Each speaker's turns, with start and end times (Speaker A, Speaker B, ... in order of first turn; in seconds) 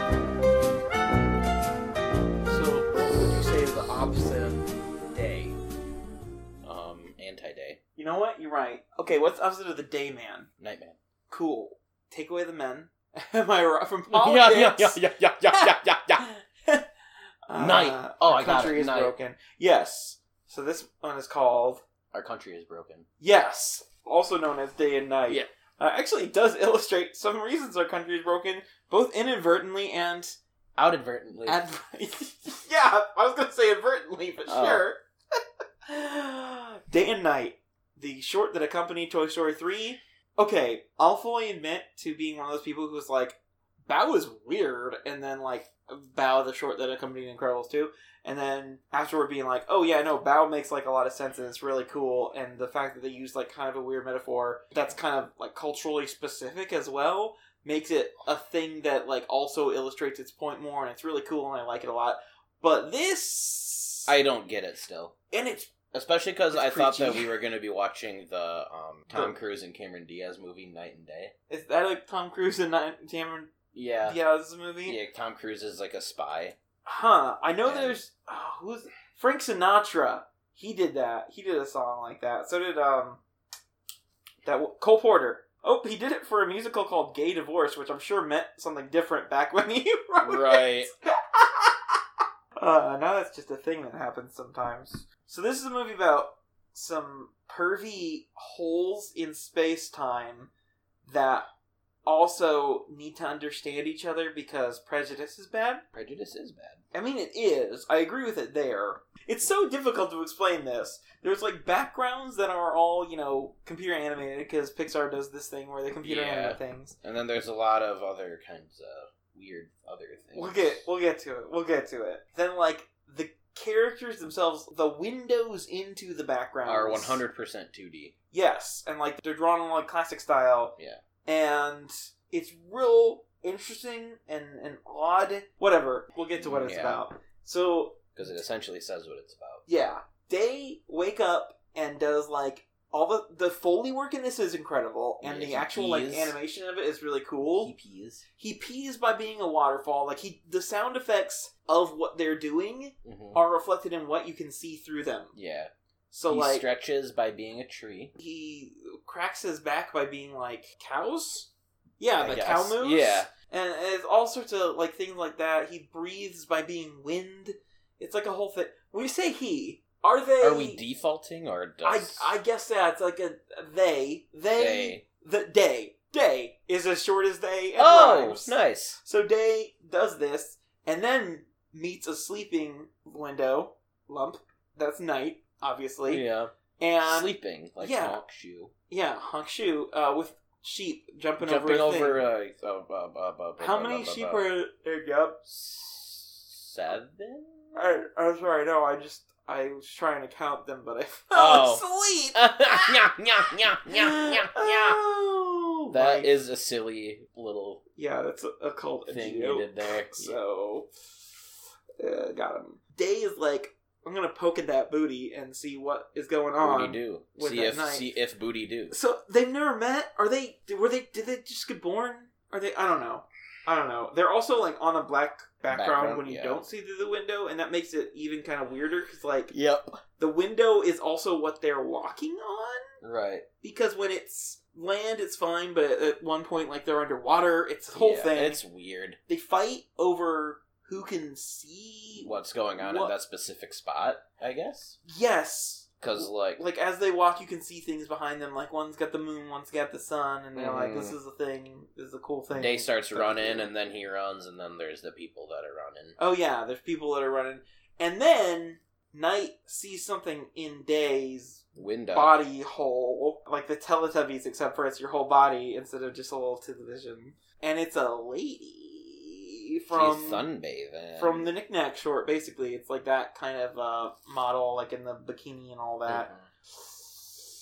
Speaker A: 2.5-5.6, 8.0-10.5, 11.3-16.8, 17.5-21.8, 23.2-30.4, 31.4-35.0, 35.9-64.1, 65.3-65.7, 66.5-67.3, 71.5-73.5, 74.0-75.0, 76.8-83.2, 84.4-91.8, 92.5-100.5, 101.0-101.5, 102.0-105.8, 106.9-117.0, 120.3-127.2, 128.3-138.0, 139.7-147.7, 148.4-155.3, 156.1-156.7, 158.2-170.8, 171.8-186.3, 186.8-188.2, 188.9-192.2, 193.6-195.4, 197.8-203.0, 203.8-206.3, 208.0-211.4, 212.0-218.1, 218.9-229.5, 230.2-232.8, 233.6-238.6, 239.3-243.1, 245.1-253.7, 256.2-270.5, 271.1-276.3, 277.0-277.4
Speaker B: 6.6-7.8, 10.6-11.0, 14.1-16.2, 17.6-19.1, 22.1-23.1, 30.8-31.6, 34.5-34.9, 64.1-65.1, 65.9-71.3, 73.7-74.2, 74.8-76.5, 77.6-78.0, 90.2-90.9, 105.9-106.8, 116.0-120.8, 126.6-128.1, 136.4-137.0, 138.1-139.6, 145.2-146.3, 147.6-148.2, 153.0-153.4, 155.3-155.7, 156.3-158.1, 162.2-163.3, 170.4-172.3, 174.5-175.0, 177.8-179.0, 186.1-186.5, 187.0-188.7, 191.4-194.4, 195.4-197.8, 201.3-205.0, 205.9-207.8, 209.1-210.4, 216.6-218.9, 225.7-226.6, 229.5-230.0, 233.0-233.4, 237.9-239.2, 242.2-245.0, 246.0-246.6, 250.5-251.2, 252.5-256.1, 261.8-262.4, 269.9-271.5, 276.1-276.5